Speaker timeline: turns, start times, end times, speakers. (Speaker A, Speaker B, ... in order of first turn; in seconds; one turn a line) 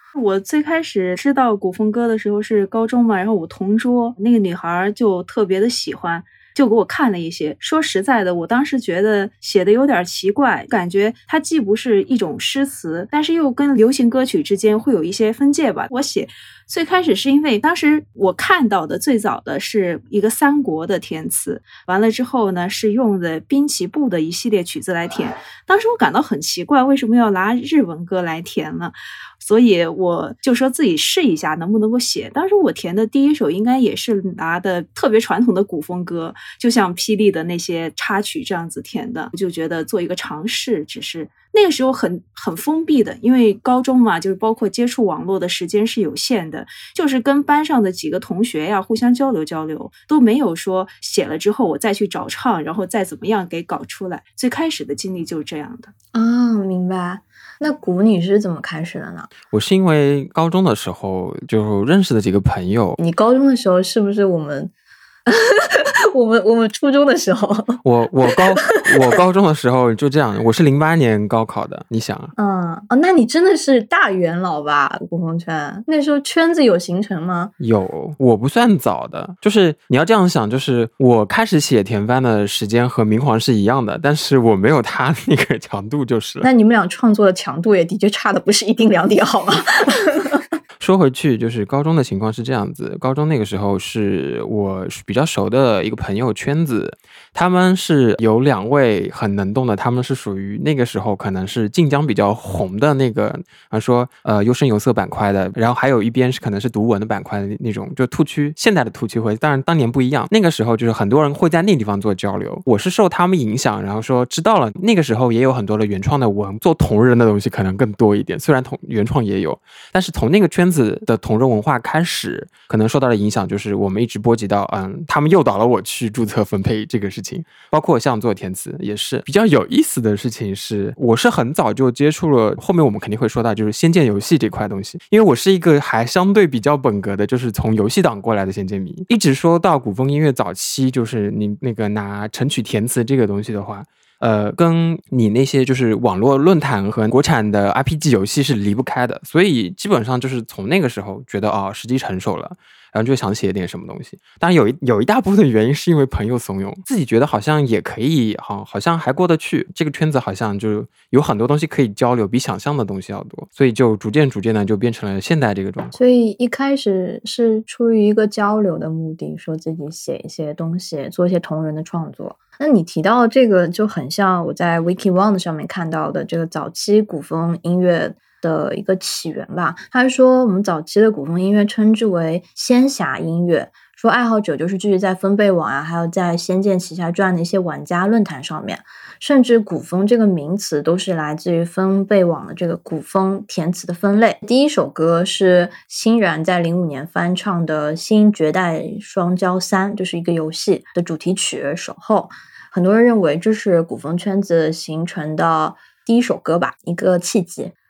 Speaker A: 0.1-55.9
Speaker B: 56.1-59.3
Speaker C: 59.5-63.0
Speaker B: 63.0-64.7
Speaker B: 65.3-67.8
Speaker C: 67.8-72.3
Speaker B: 72.4-77.5
Speaker C: 77.6-86.5
Speaker B: 86.4-90.4
Speaker C: 90.8-165.9
Speaker B: 165.9-207.7